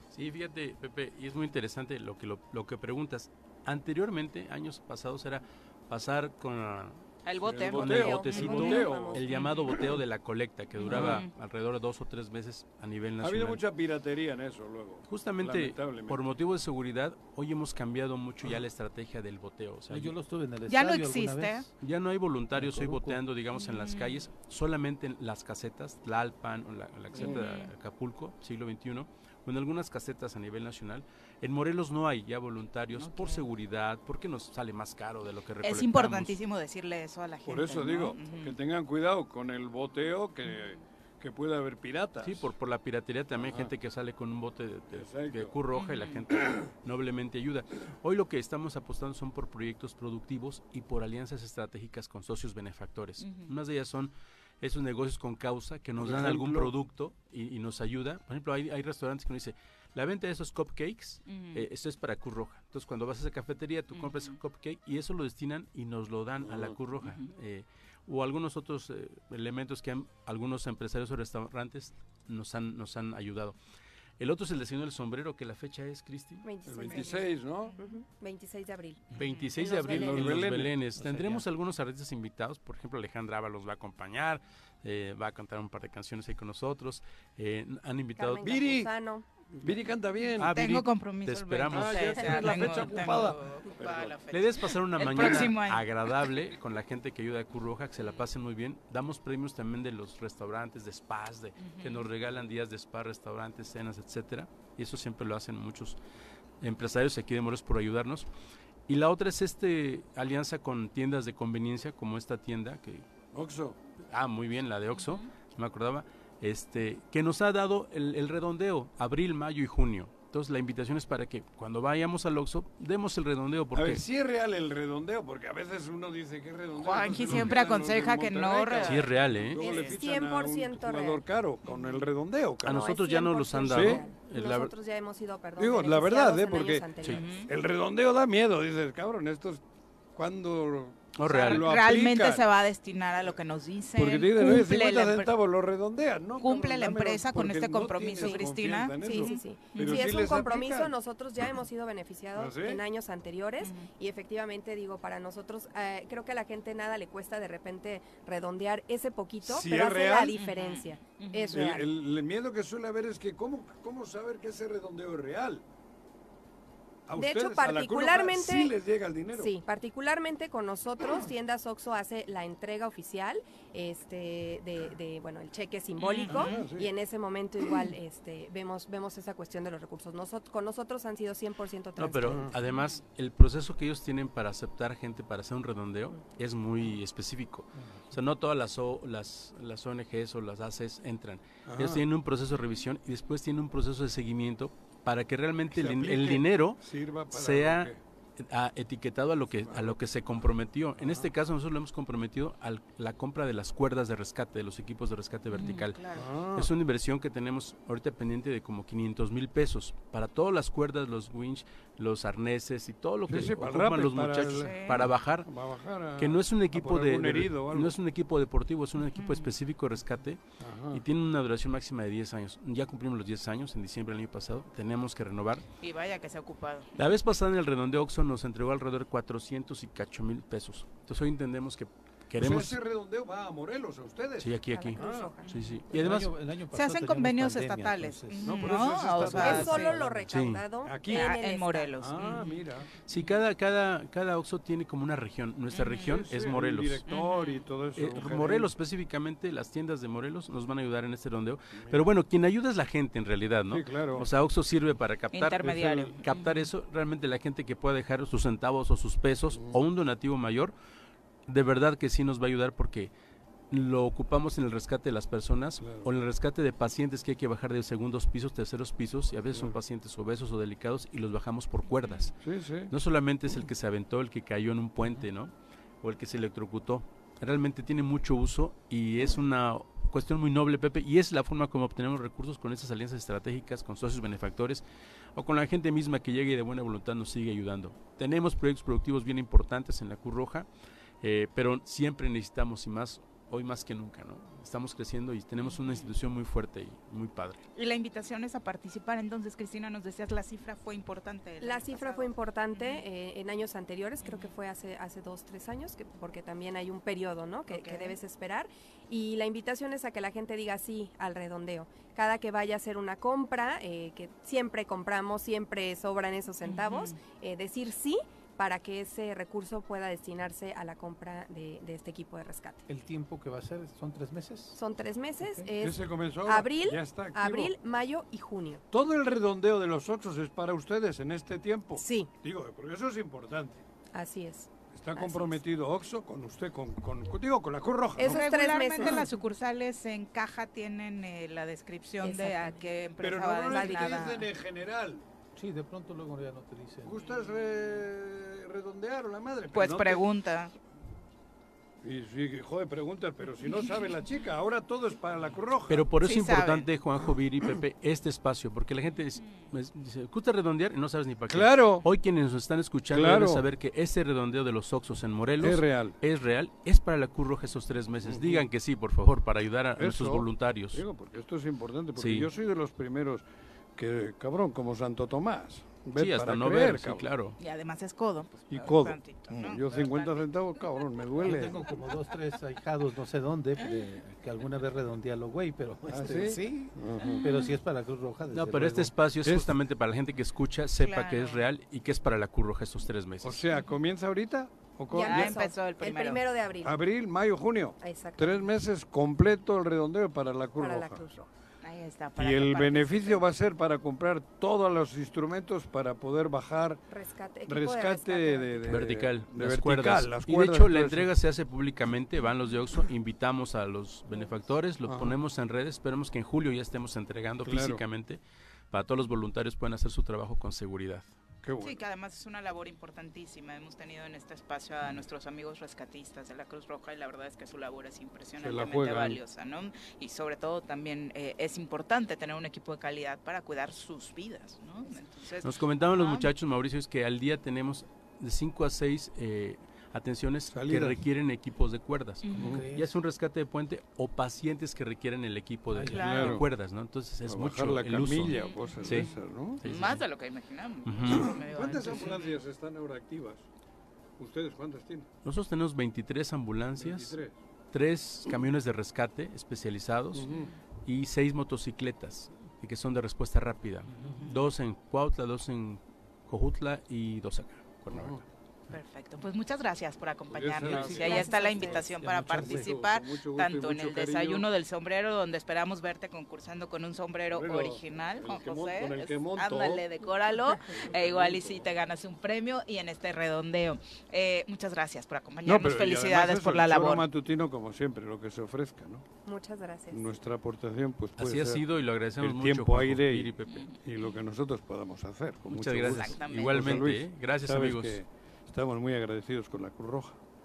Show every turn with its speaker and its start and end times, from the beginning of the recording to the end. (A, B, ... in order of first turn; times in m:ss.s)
0:00.1-0:13.6 A
0:07.3-0:09.6 B
0:07.5-0:09.2 C
0:07.9-0:09.3 D
0:10.8-0:11.3 B
0:10.9-0:11.2 C
0:13.2-0:16.2 C
0:15.0-0:20.1 A
0:19.9-0:21.7 E
0:20.7-0:21.7 B
0:21.8-0:36.4 A
0:22.5-0:23.2 E
0:23.6-0:24.3 B
0:27.1-0:27.5 C
0:27.1-0:27.7 B
0:32.9-0:33.5 B
0:35.6-0:38.5 B
0:37.5-0:42.5 C
0:40.5-0:40.7 B
0:42.2-1:13.6 A
0:43.4-0:43.7 C
0:44.9-0:45.6 C
0:45.8-0:46.3 B
0:46.4-0:46.7 C
0:53.2-0:53.5 B
0:56.0-0:56.7 C
1:01.3-1:01.6 B
1:03.9-1:04.4 B
1:06.4-1:06.8 C
1:14.2-1:16.5 A
1:16.4-1:20.6 D
1:16.7-1:17.7 C
1:19.2-1:28.6 A
1:19.9-1:21.4 C
1:28.2-1:29.2 D
1:28.4-1:28.9 C
1:29.6-1:30.6 C
1:30.4-1:32.8 A
1:30.4-1:35.8 B
1:31.7-1:34.2 C
1:34.3-1:46.0 A
1:35.2-1:35.5 C
1:38.0-1:38.3 B
1:41.6-1:42.1 B
1:46.6-1:48.3 A
1:48.9-1:53.1 A
1:53.3-1:53.8 C
1:54.1-2:04.0 A
2:03.7-2:12.9 C
2:06.8-2:10.0 B
2:08.8-2:09.6 A
2:09.6-2:11.2 D
2:12.7-2:14.7 A
2:12.7-2:17.2 D
2:13.7-2:14.0 C
2:15.6-2:19.6 C
2:17.0-2:17.3 A
2:17.1-2:17.5 B
2:20.1-2:22.4 C
2:21.2-2:21.7 A
2:21.3-2:25.3 B
2:24.0-2:30.9 C
2:26.4-2:30.1 B
2:29.0-2:41.9 D
2:32.4-2:32.8 C
2:33.6-2:33.9 B
2:39.4-2:40.4 C
2:40.4-2:41.6 B
2:41.5-2:45.6 C
2:47.1-2:49.6 C
2:47.2-2:48.7 D
2:49.3-3:02.4 D
2:56.0-2:56.7 B
2:56.3-2:56.9 C
3:02.0-3:35.5 A
3:02.7-3:03.0 B
3:11.7-3:12.0 C
3:15.7-3:18.0 C
3:19.6-3:20.1 C
3:21.0-3:21.3 C
3:25.5-3:26.3 B
3:26.1-3:26.7 C
3:33.3-3:38.0 C
3:34.5-3:35.0 B
3:36.2-3:40.4 A
3:39.1-3:39.5 B
3:40.6-3:41.0 C
3:40.9-3:45.6 A
3:45.8-3:47.0 B
3:47.0-3:52.8 A
3:52.4-3:55.3 C
3:54.4-3:56.3 A
3:54.8-3:55.6 B
3:54.8-3:55.5 D
3:55.9-3:58.6 E
3:56.7-4:00.0 B
3:58.4-4:00.2 C
3:59.3-4:01.9 D
4:00.3-4:00.7 A
4:00.8-4:01.3 C
4:01.1-4:03.4 B
4:02.0-4:02.9 C
4:03.1-4:07.1 A
4:05.7-4:06.2 B
4:06.0-4:08.7 C
4:07.1-4:07.7 B
4:08.0-4:20.7 A
4:11.8-4:12.0 C
4:13.7-4:14.3 C
4:15.3-4:16.6 B
4:15.6-4:16.2 C
4:21.5-4:23.1 A
4:23.7-4:32.3 A
4:25.8-4:26.1 C
4:29.5-4:29.8 C
4:32.0-4:32.3 B
4:32.4-4:32.9 C
4:32.9-4:44.8 A
4:45.4-4:50.7 A
4:51.2-4:57.6 A
4:55.6-4:56.1 B
4:57.8-5:03.0 B
5:01.6-5:22.8 D
5:04.2-5:04.5 B
5:07.7-5:08.2 B
5:16.7-5:17.2 B
5:22.9-5:24.8 E
5:24.8-5:28.8 D
5:25.6-5:27.7 C
5:28.9-5:33.8 C
5:32.0-5:32.3 D
5:34.1-5:35.6 D
5:34.9-5:38.4 C
5:38.2-5:39.3 D
5:38.2-5:44.5 B
5:42.2-5:42.8 D
5:43.2-5:45.2 C
5:43.7-5:44.3 D
5:45.6-5:47.2 E
5:47.0-5:50.3 C
5:49.7-5:50.7 B
5:52.0-5:56.1 C
5:55.9-6:11.0 A
5:56.2-5:56.9 B
5:57.2-5:57.8 C
5:59.4-5:59.7 B
6:01.5-6:02.1 C
6:03.1-6:03.7 C
6:05.6-6:06.2 C
6:08.2-6:08.7 C
6:10.0-6:13.4 C
6:12.2-6:12.5 A
6:14.0-6:17.3 C
6:16.2-6:17.6 A
6:17.6-6:20.5 B
6:18.7-6:21.8 C
6:21.4-6:29.1 E
6:26.1-6:27.4 C
6:27.2-6:27.7 B
6:28.5-6:33.6 A
6:29.4-6:29.7 C
6:31.0-6:31.6 B
6:33.4-6:35.5 C
6:35.1-6:37.0 D
6:35.2-6:36.4 B
6:36.8-6:41.3 C
6:38.0-6:38.6 D
6:40.8-6:41.5 D
6:41.8-6:43.4 B
6:42.4-6:47.0 C
6:47.1-6:49.0 D
6:47.7-6:51.3 C
6:48.9-7:01.3 A
6:55.0-6:55.4 C
6:57.6-6:58.0 C
7:01.6-7:02.0 C
7:01.8-7:16.5 B
7:08.6-7:09.4 C
7:15.6-7:29.3 A
7:20.7-7:21.2 C
7:22.4-7:22.7 B
7:22.6-7:23.1 E
7:22.6-7:22.8 C
7:25.9-7:26.5 E
7:26.1-7:26.6 C
7:26.1-7:26.6 B
7:27.5-7:29.8 C
7:28.5-7:32.6 B
7:29.8-7:30.2 A
7:31.1-7:31.6 A
7:31.2-7:33.6 C
7:34.4-7:35.3 C
7:35.4-7:37.4 A
7:37.0-7:37.5 C
7:37.9-7:40.5 A
7:40.3-7:40.7 C
7:41.0-7:48.4 A
7:48.1-7:48.4 C
7:48.9-8:07.2 B
7:50.5-7:51.4 C
7:50.9-7:52.9 E
7:51.3-7:52.1 D
7:52.6-7:54.7 C
7:57.5-8:00.1 C
8:00.8-8:01.9 C
8:05.6-8:09.2 C
8:09.5-8:10.4 D
8:10.1-8:20.4 C
8:11.4-8:13.9 A
8:15.7-8:18.2 A
8:16.2-8:17.0 B